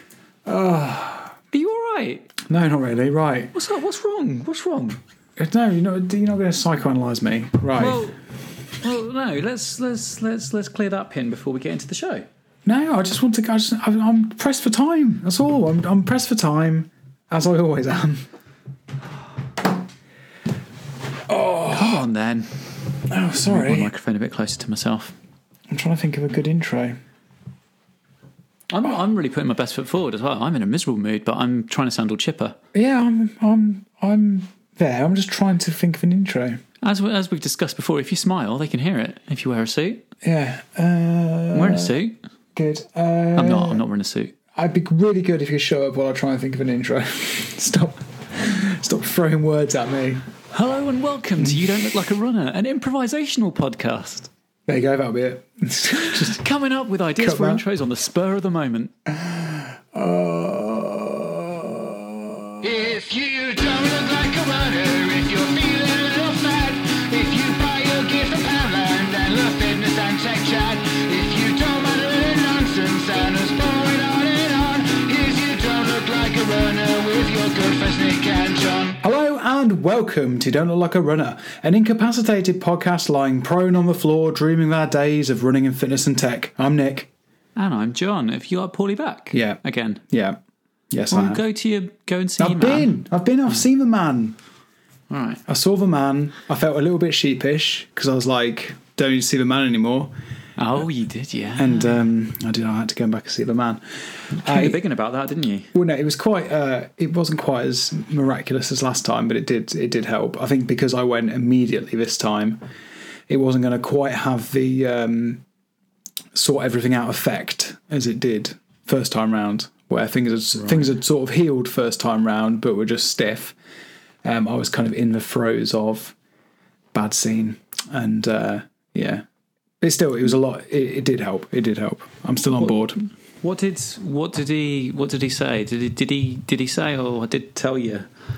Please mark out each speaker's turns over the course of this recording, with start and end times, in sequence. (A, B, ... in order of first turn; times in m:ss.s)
0:00.5-0:01.4 A
0:01.5-0:02.3 B
0:02.5-0:03.5 A
0:03.5-0:05.0 B
0:05.4-0:08.0 A
0:07.8-0:08.2 B
0:08.8-0:12.3 B
0:12.6-0:18.3 A
0:21.3-0:22.0 A
0:21.7-0:22.6 B
0:23.1-0:23.9 A
0:23.4-0:25.2 B
0:25.7-0:27.0 A
0:28.7-0:32.6 B
0:32.7-0:36.6 A
0:36.8-0:40.0 B
0:40.2-0:41.9 A
0:41.5-0:42.2 B
0:42.6-0:43.8 A
0:43.4-0:44.3 B
0:44.5-0:50.2 A
0:50.5-0:54.3 B
0:54.7-0:56.4 A
0:55.9-0:58.9 B
0:57.2-0:57.6 A
0:59.2-1:02.6 A
1:02.6-1:19.0 C
1:19.0-1:27.1 A
1:27.6-1:30.0 B
1:29.3-1:30.4 A
1:30.9-1:31.4 A
1:31.1-1:33.0 B
1:32.4-1:34.4 A
1:35.1-1:35.4 B
1:35.5-1:40.1 A
1:40.6-1:42.0 B
1:41.6-1:44.8 A
1:44.4-1:45.7 B
1:45.7-1:52.6 A
1:53.3-1:55.4 A
1:56.3-2:03.6 A
2:04.2-2:06.2 A
2:06.9-2:09.2 A
2:09.8-2:13.0 A
2:13.4-2:18.1 B